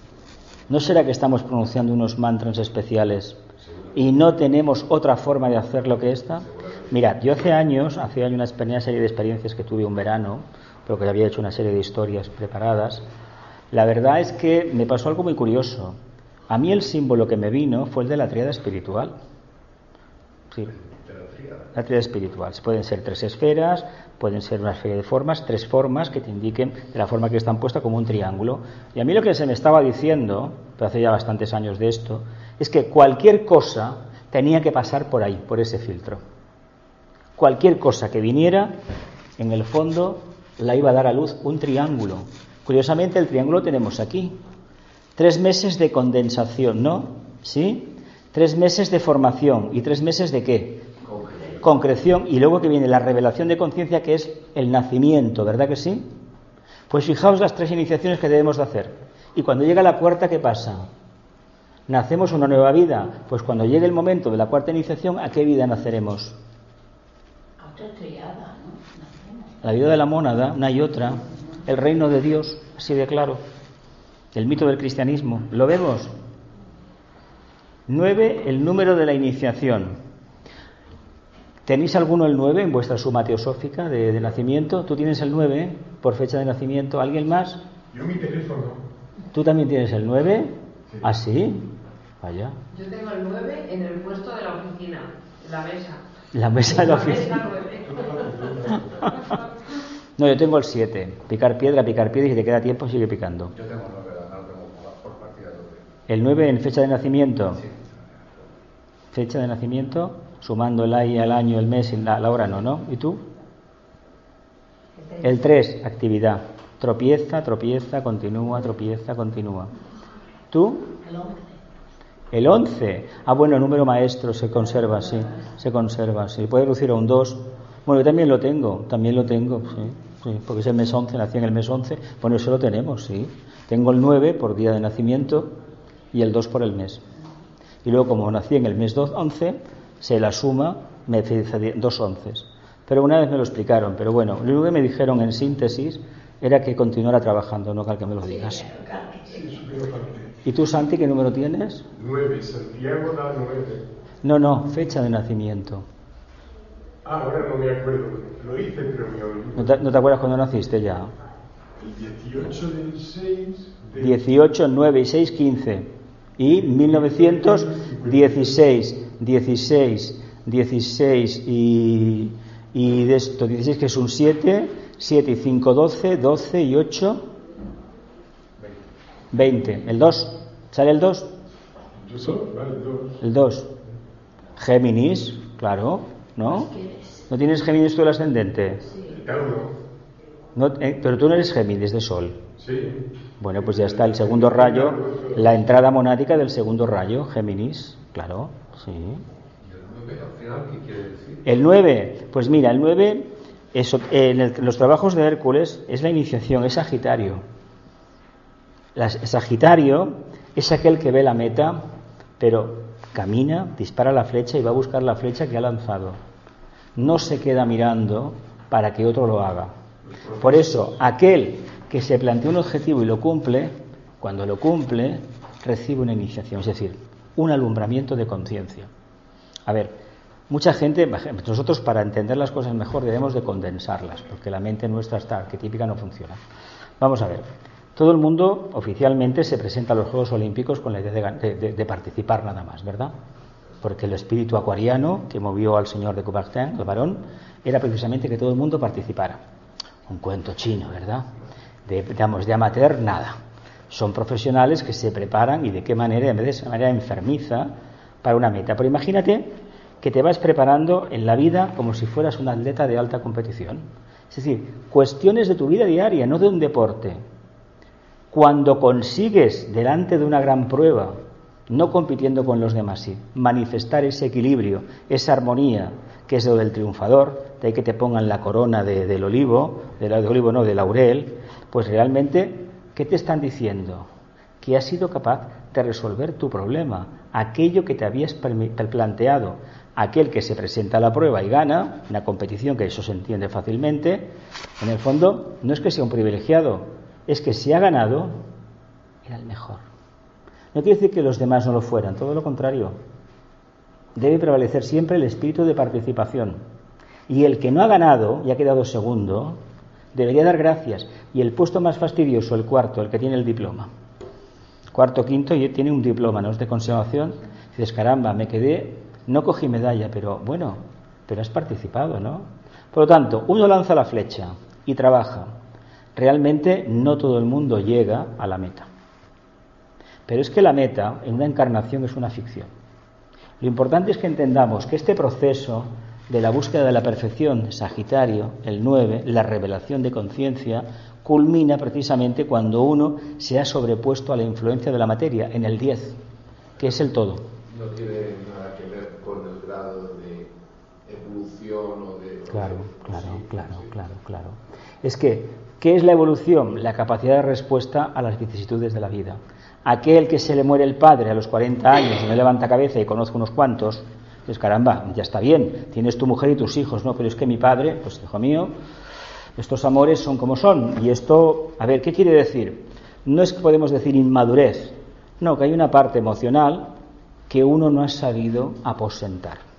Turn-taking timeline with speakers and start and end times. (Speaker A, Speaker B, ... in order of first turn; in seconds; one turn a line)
Speaker A: 0.7-3.4
Speaker B: 3.6-4.0
Speaker A: 3.9-13.0
Speaker B: 6.5-6.9
Speaker A: 13.7-16.0
Speaker A: 16.5-19.1
Speaker B: 20.7-21.8
Speaker A: 21.7-36.2
Speaker A: 37.4-38.8
Speaker A: 39.4-44.4
Speaker A: 45.2-50.9
Speaker B: 51.0-51.6
Speaker A: 51.6-56.1
Speaker A: 56.9-60.9
Speaker A: 61.9-66.4
Speaker C: 67.6-69.6
Speaker A: 69.6-73.4
Speaker A: 74.3-76.1
Speaker A: 77.9-80.0
Speaker A: 81.7-87.6
Speaker D: 87.9-88.8
Speaker A: 89.3-92.6
Speaker E: 92.7-96.0
Speaker A: 96.3-97.4
Speaker E: 96.7-99.4
Speaker D: 97.9-99.0
Speaker A: 100.2-103.5
Speaker B: 103.5-105.8
Speaker A: 106.1-107.6
Speaker B: 107.6-108.5
Speaker A: 109.1-113.2
Speaker A: 115.2-119.7
Speaker A: 120.5-120.9
Speaker C: 121.0-121.6
Speaker A: 122.3-135.5
Speaker A: 136.1-137.0
Speaker A: 137.8-148.6
Speaker C: 148.2-149.8
Speaker D: 149.3-150.3
Speaker A: 150.4-151.8
Speaker D: 151.9-153.9
Speaker A: 154.2-155.8
Speaker D: 157.0-159.8
Speaker A: 159.6-161.1
Speaker D: 161.8-164.2
Speaker A: 164.0-177.2
Speaker D: 166.4-168.6
Speaker A: 179.3-181.3
Speaker D: 182.0-183.2
Speaker A: 183.2-183.7
Speaker A: 184.6-186.7
Speaker C: 186.5-187.2
Speaker A: 187.3-188.9
Speaker C: 188.9-189.2
Speaker D: 189.0-189.8
Speaker A: 190.5-192.4
Speaker D: 192.6-195.4
Speaker A: 193.4-199.2
Speaker B: 199.6-201.4
Speaker A: 201.4-207.4
Speaker A: 208.9-211.8
Speaker A: 212.4-216.2
Speaker A: 216.9-219.7
Speaker A: 220.3-228.9
Speaker A: 229.7-229.9
Speaker A: 230.5-236.4
Speaker A: 237.0-243.1
Speaker A: 243.8-249.4
Speaker A: 250.1-251.3
Speaker A: 251.8-253.4
Speaker A: 253.9-267.2
Speaker A: 268.3-284.1
Speaker A: 284.6-298.4
Speaker A: 299.2-299.8
Speaker A: 300.7-303.0
Speaker A: 304.1-306.6
Speaker A: 307.3-309.6
Speaker A: 310.1-313.9
Speaker A: 314.9-325.5
Speaker A: 326.1-328.9
Speaker A: 330.3-332.7
Speaker A: 333.6-346.2
Speaker A: 346.8-347.5
Speaker B: 347.6-350.5
Speaker B: 351.0-353.9
Speaker A: 352.5-368.7
Speaker A: 369.6-376.9
Speaker A: 377.5-379.6